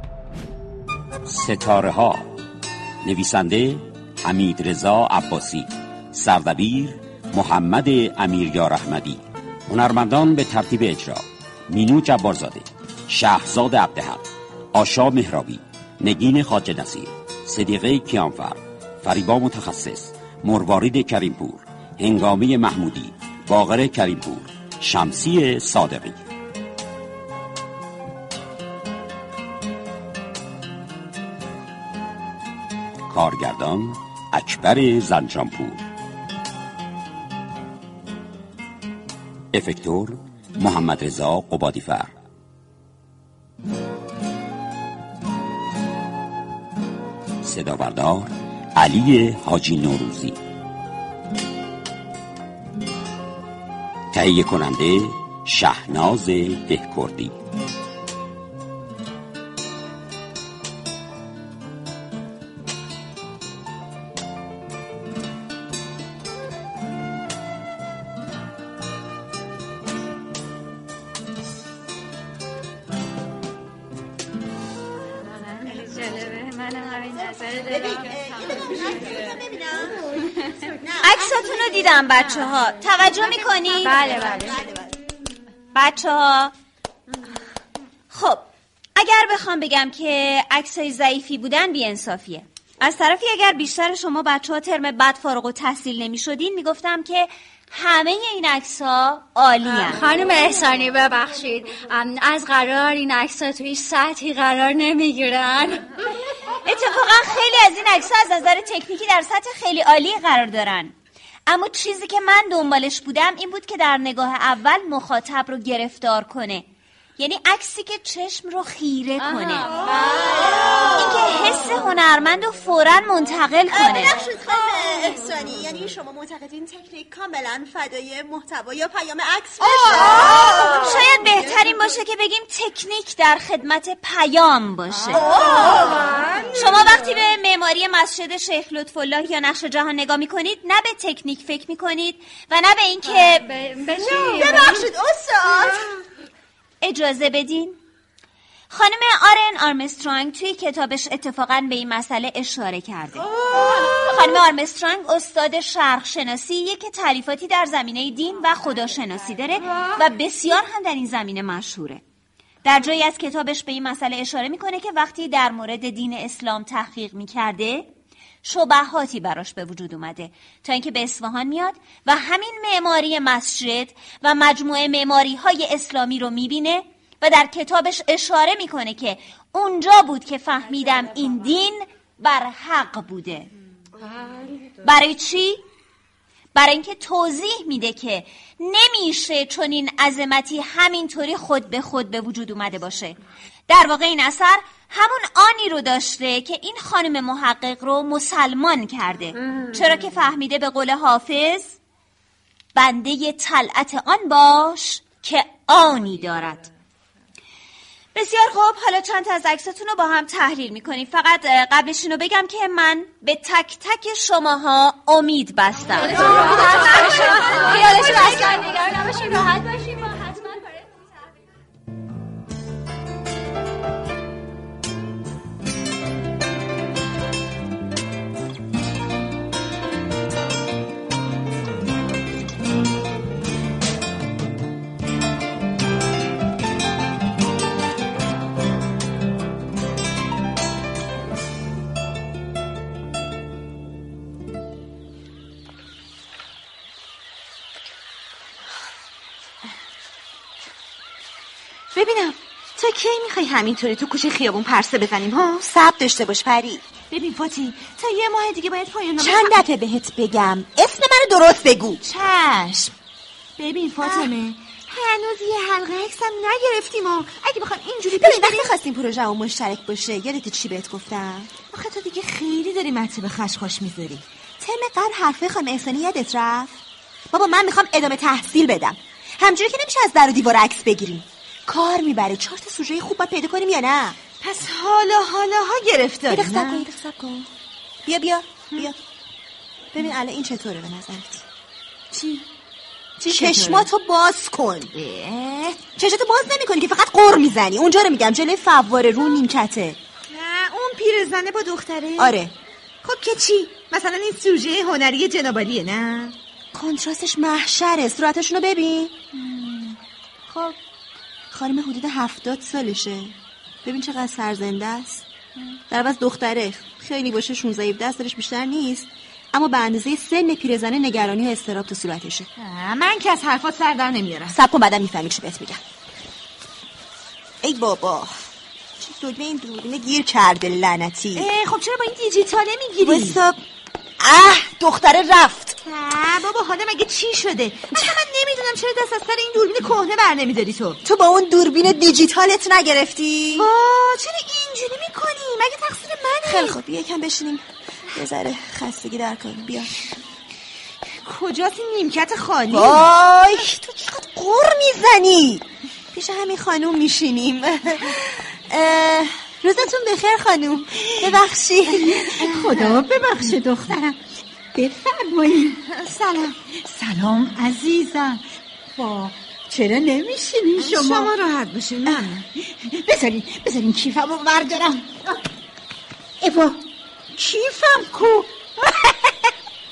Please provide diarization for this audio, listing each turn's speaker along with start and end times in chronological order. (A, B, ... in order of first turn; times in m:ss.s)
0:01.3-0:02.4 A
0:03.0-0:26.2 A
0:33.1-0:35.9 A
0:39.5-0:42.2 A
0:47.4-0:50.4 A
0:54.1-0:57.4 A
1:15.7-1:18.0 B
1:17.6-1:20.0 C
1:20.8-1:21.8 C
1:21.0-1:24.1 D
1:23.6-1:24.9 C
1:23.9-1:24.6 B
1:25.7-1:26.5 D
1:28.1-1:40.1 D
1:39.8-1:45.8 B
1:46.6-1:50.9 D
1:51.5-1:56.7 D
1:57.2-1:59.8 D
1:59.5-2:00.4 B
2:00.4-2:00.9 C
2:00.9-2:04.2 D
2:03.7-2:10.6 C
2:09.9-2:15.8 D
2:15.7-2:16.0 B
2:16.5-2:23.5 D
2:23.5-2:24.9 B
2:24.0-2:25.9 C
2:26.8-2:27.8 D
2:28.7-2:33.3 D
2:34.0-2:42.0 D
2:42.6-2:47.9 D
2:48.4-3:03.5 D
3:04.8-3:05.6 D
3:06.6-3:13.2 D
3:13.7-3:21.8 D
3:22.8-3:26.7 D
3:28.1-3:38.6 D
3:36.1-3:40.5 B
4:11.9-4:15.6 E
4:15.6-4:16.8 C
4:17.1-4:19.6 E
4:19.2-4:22.0 C
4:22.0-4:22.9 E
4:23.6-4:28.7 E
4:24.0-4:24.3 C
4:28.2-4:31.5 C
4:31.7-4:34.2 E
4:34.6-4:36.8 C
4:37.3-4:44.2 C
4:44.4-4:46.9 E
4:46.3-4:47.5 C
4:48.0-4:49.0 C
4:49.9-4:51.4 C
4:52.1-4:52.4 E
4:53.2-4:53.9 E
4:53.2-4:54.9 C
4:54.9-4:55.8 E
4:56.0-5:00.0 C
5:00.3-5:02.4 E
5:02.2-5:02.5 C
5:03.0-5:06.4 E
5:06.7-5:10.0 C
5:10.5-5:10.8 C
5:11.5-5:15.2 C
5:15.9-5:22.5 C
5:22.6-5:24.6 E
5:24.5-5:25.8 C
5:27.6-5:28.3 C
5:29.0-5:31.5 C
5:31.4-5:33.4 E
5:33.0-5:33.6 C
5:34.2-5:35.8 C
5:35.8-5:41.0 E
5:41.0-5:43.7 C
5:43.5-5:46.8 E
5:46.5-5:50.0 C
5:51.2-5:53.1 E
5:52.7-6:02.3 C
6:02.1-6:04.2 F
6:02.4-6:03.0 E
6:04.7-6:05.8 F
6:05.9-6:06.6 E
6:06.7-6:08.4 F
6:09.0-6:11.3 F
6:10.8-6:12.4 E
6:12.7-6:15.4 F
6:16.4-6:19.5 F